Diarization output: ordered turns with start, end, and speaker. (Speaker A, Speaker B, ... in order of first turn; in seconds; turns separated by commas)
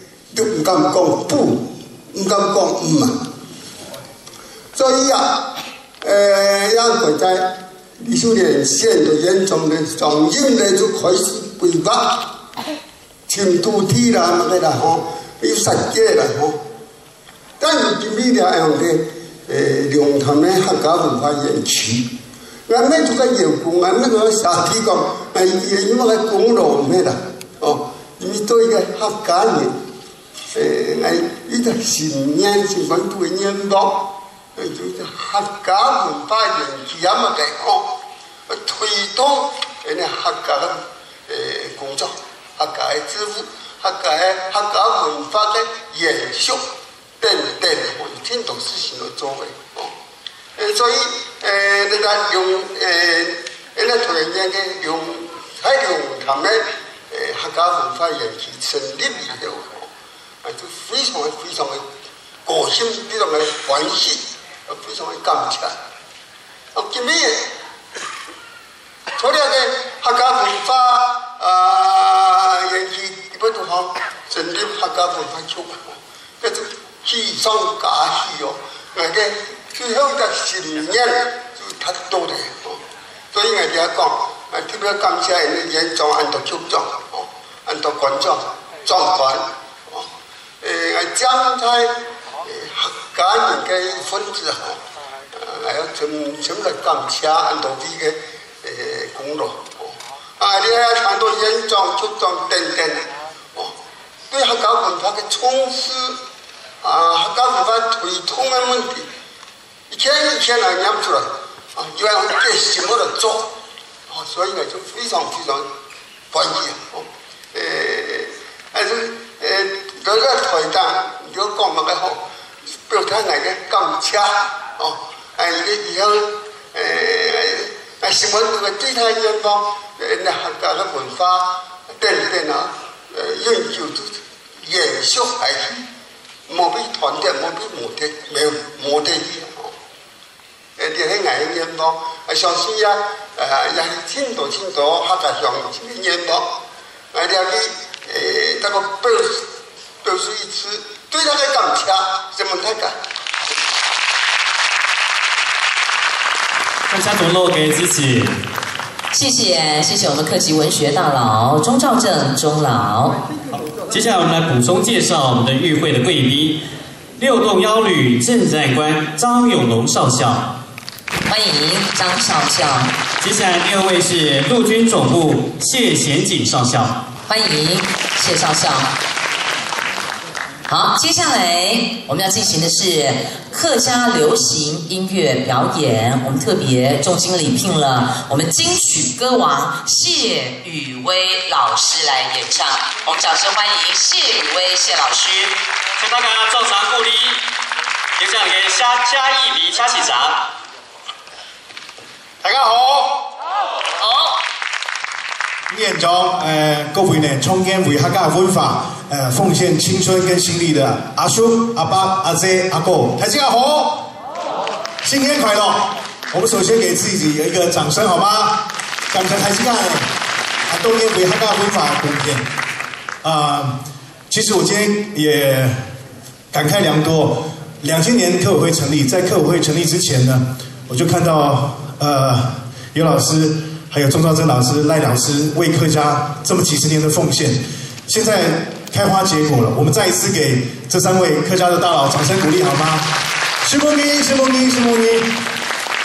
Speaker A: 0.3-3.2, Speaker A: 4.7-5.5, Speaker A: 6.0-12.3, Speaker A: 13.3-16.6, Speaker A: 17.6-22.1, Speaker A: 22.7-29.8, Speaker A: 30.6-38.0, Speaker A: 38.5-46.7, Speaker A: 47.2-50.0, Speaker A: 50.6-59.9, Speaker A: 60.4-61.9, Speaker A: 62.5-65.8, Speaker A: 66.7-67.5, Speaker A: 69.2-82.8, Speaker A: 83.3-90.1, Speaker A: 90.6-91.9, Speaker A: 92.4-94.8, Speaker A: 95.3-103.8, Speaker A: 104.3-106.2, Speaker A: 106.8-109.1, Speaker A: 109.9-113.5, Speaker A: 114.1-115.7, Speaker A: 116.3-122.2, Speaker A: 122.9-135.8, Speaker A: 136.5-139.7, Speaker A: 140.8-146.5, Speaker A: 147.1-149.4, Speaker A: 150.0-153.0, Speaker B: 156.9-158.3, Speaker C: 159.1-163.2, Speaker B: 163.7-166.6, Speaker B: 167.2-170.5, Speaker C: 171.3-172.9, Speaker B: 173.2-177.0, Speaker C: 177.3-178.9, Speaker C: 180.7-195.6, Speaker B: 196.0-197.5, Speaker B: 198.2-200.5, Speaker D: 202.4-203.2, Speaker C: 204.0-204.4, Speaker D: 205.7-214.1, Speaker D: 215.0-220.1, Speaker D: 220.7-222.5, Speaker D: 223.2-223.8, Speaker D: 224.3-225.8, Speaker D: 226.5-243.1, Speaker D: 243.6-245.3